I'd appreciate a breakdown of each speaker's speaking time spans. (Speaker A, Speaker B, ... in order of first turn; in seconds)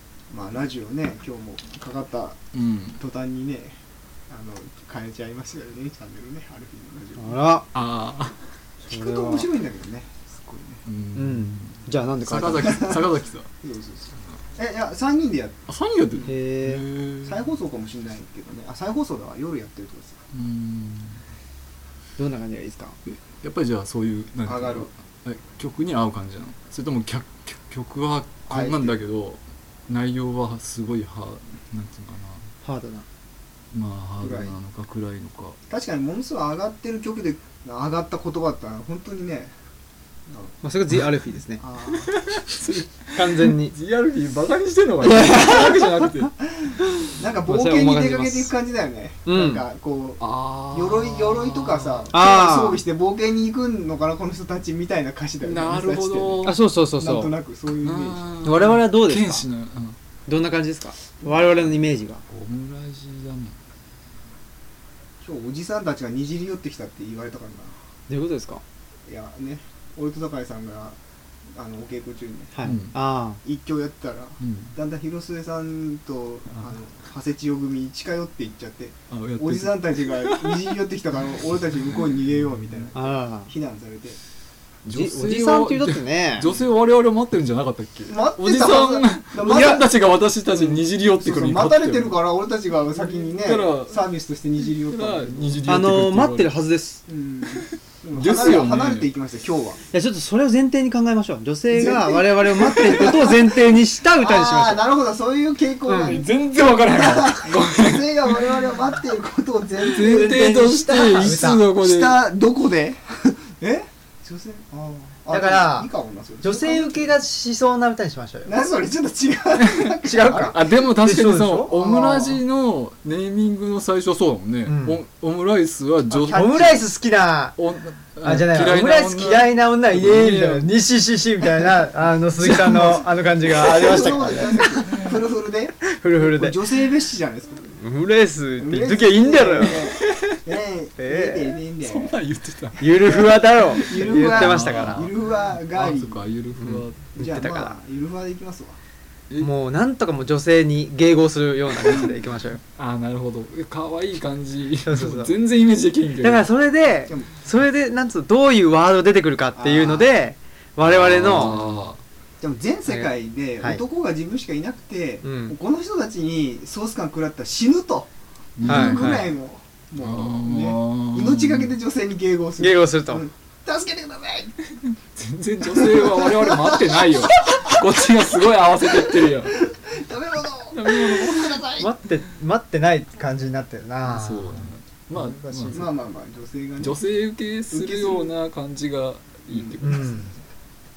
Speaker A: 0.3-2.4, 3.0-7.4, 8.9-10.8, 12.6-15.6, 17.2-20.2, 24.4-24.9, 28.5-29.0, 34.2-34.6, 35.7-39.5, 40.3-40.5, 41.6-42.4, 46.6-56.5, 57.0-58.2, 61.2-61.5, 65.2-67.8, 69.0-72.7, 73.4-84.2, 88.1-89.9, 90.5-95.7, 97.1-99.8, 101.7-103.5, 104.1-106.3, 106.9-117.1, 118.5-120.5, 121.7-122.4, 126.1-126.8, 133.4-137.7, 138.6-142.1, 143.0-146.2, 147.1-148.8, 157.1-157.4, 159.6-160.1, 162.4-168.1, 168.6-174.5, 175.6-177.7, 178.9-181.9, 185.7-187.0, 187.7-188.3, 189.5-190.4
Speaker B: 2.5-3.0, 7.7-8.4, 10.8-13.5, 15.7-17.4, 20.3-21.2, 23.1-32.5, 33.7-35.6, 42.0-46.4, 50.2-52.1, 55.4-56.6, 57.8-60.0, 62.3-63.6, 72.6-72.9, 74.4-74.7, 79.1-80.8, 84.8-92.1, 92.9-94.0, 94.7-96.5, 98.1-99.1, 102.7-103.1, 106.0-108.6, 109.8-112.2, 119.5-126.7, 127.6-130.7, 132.4-133.0, 140.0-140.4, 141.8-147.0, 152.8-156.5, 160.8-162.0, 168.6-169.2, 170.0-171.7, 175.2-179.6, 180.7-181.6, 184.0-185.9, 186.8-190.2
Speaker C: 7.2-7.7, 8.8-9.5, 11.1-13.0, 16.2-16.9, 22.2-23.0, 32.6-33.0, 40.6-41.6, 43.1-43.7, 45.0-46.0, 47.0-48.5, 49.2-49.6, 52.1-52.8, 56.4-57.3, 58.4-59.4, 60.3-62.2, 68.1-68.6, 72.5-73.4, 82.9-83.5, 84.9-86.5, 89.5-89.8, 95.7-97.0, 99.9-104.8, 105.9-106.2, 110.0-111.7, 115.3-115.9, 116.4-118.5, 120.0-121.7, 124.6-125.0, 126.2-127.6, 128.2-135.0, 135.8-136.6, 137.7-139.9, 141.0-141.6, 142.8-145.1, 146.6-147.7, 149.4-152.6, 154.8-155.3, 156.2-161.6, 162.9-163.8, 165.2-165.5, 168.6-169.3, 172.6-173.2, 181.8-185.7, 189.8-190.3